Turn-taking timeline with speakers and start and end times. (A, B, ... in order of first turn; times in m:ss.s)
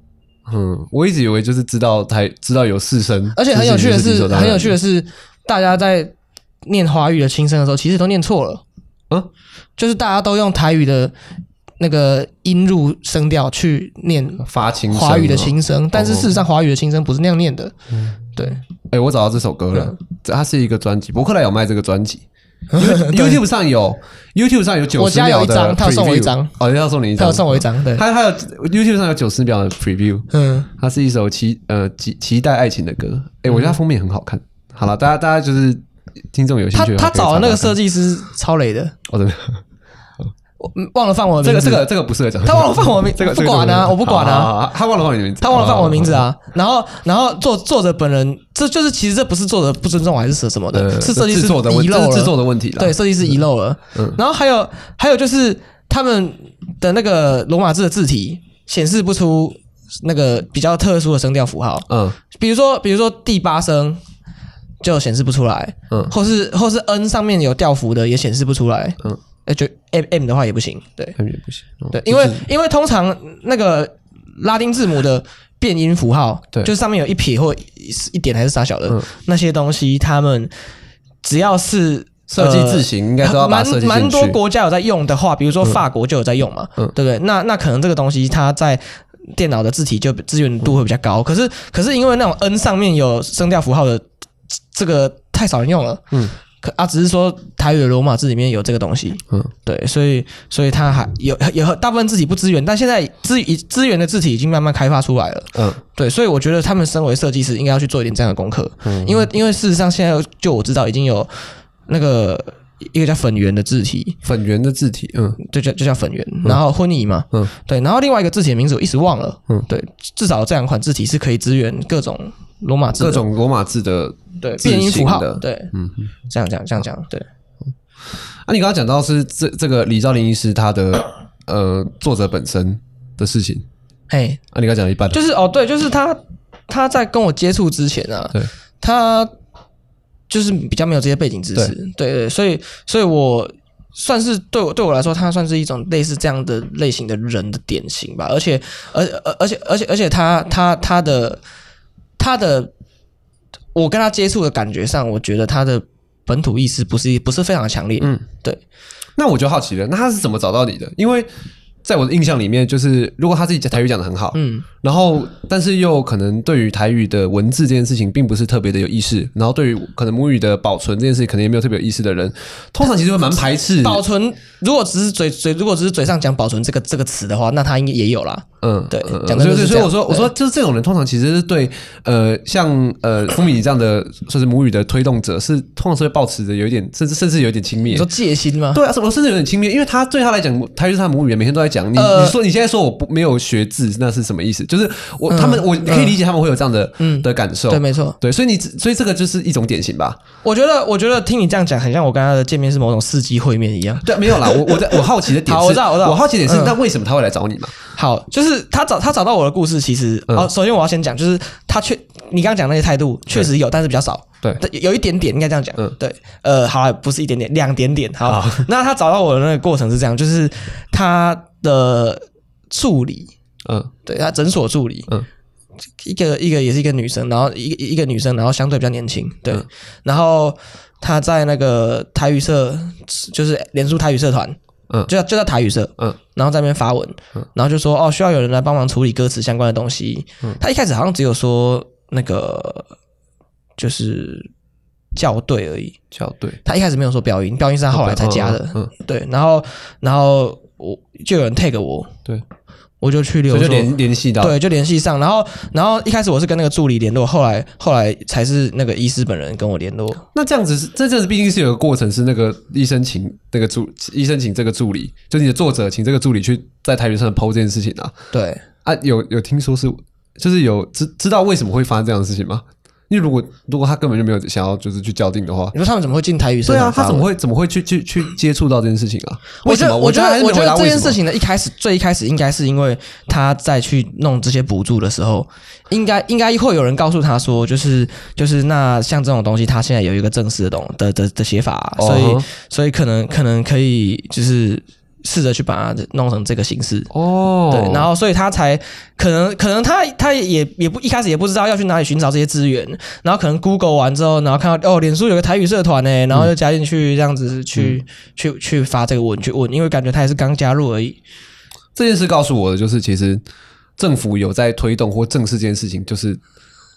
0:00.4-0:04.8 A
0:03.3-0:06.1 B
0:06.6-0:08.6 B
0:09.8-0:11.1 B
0:11.8-0:17.7 B
0:14.4-0:16.3 A
0:17.9-0:22.2 A
0:18.4-0:18.6 B
0:22.7-0:23.4 B
0:22.8-0:37.8 A
0:25.0-0:26.5 B
0:27.2-0:28.0 B
0:30.3-0:30.7 B
0:33.5-0:33.7 B
0:36.7-0:39.0 B
0:39.1-0:39.6 A
0:40.6-0:41.8 B
0:41.4-0:46.3 A
0:42.4-0:44.5 B
0:45.4-1:04.0 B
0:50.7-0:53.0 A
1:01.9-1:02.2 A
1:04.8-1:11.2 B
1:11.2-1:12.4 A
1:11.9-1:20.5 B
1:21.2-1:34.0 B
1:22.3-1:24.4 A
1:34.7-1:54.2 B
1:45.5-1:45.8 A
1:48.8-1:49.2 A
1:54.2-1:55.4 A
1:55.4-2:03.2 B
2:03.0-2:06.0 A
2:04.4-2:05.7 B
2:06.3-2:07.2 B
2:08.4-2:13.6 A
2:14.1-2:14.4 B
2:14.5-2:15.2 A
2:15.1-2:19.3 B
2:20.3-2:31.4 B
2:32.2-2:32.7 B
2:33.7-2:38.6 B
2:38.0-2:38.3 A
2:39.2-2:41.3 A
2:41.8-2:54.0 A
2:44.3-2:44.6 B
2:53.8-3:00.3 B
2:58.6-3:08.1 A
3:07.9-3:08.8 B
3:08.7-3:20.2 A
3:11.9-3:12.4 B
3:15.3-3:16.2 B
3:17.0-3:18.2 B
3:20.4-3:26.8 B
3:24.0-3:27.7 A
3:27.9-3:43.3 B
3:38.2-3:38.7 A
3:43.6-3:43.9 A
3:44.0-3:45.1 B
3:46.0-4:02.9 B
4:03.8-4:04.5 B
4:05.1-4:06.0 B
4:06.1-4:06.6 A
4:06.6-4:12.1 B
4:07.9-4:08.9 A
4:13.0-4:20.2 B
4:13.5-4:14.6 A
4:20.3-4:28.1 A
4:28.3-4:28.6 B
4:28.8-4:35.7 A
4:35.7-4:37.3 B
4:36.6-4:41.2 A
4:39.6-4:57.1 B
4:52.0-4:52.4 A
4:57.1-4:58.1 A
4:57.7-5:11.2 B
5:11.9-5:13.4 A
5:14.0-5:16.4 A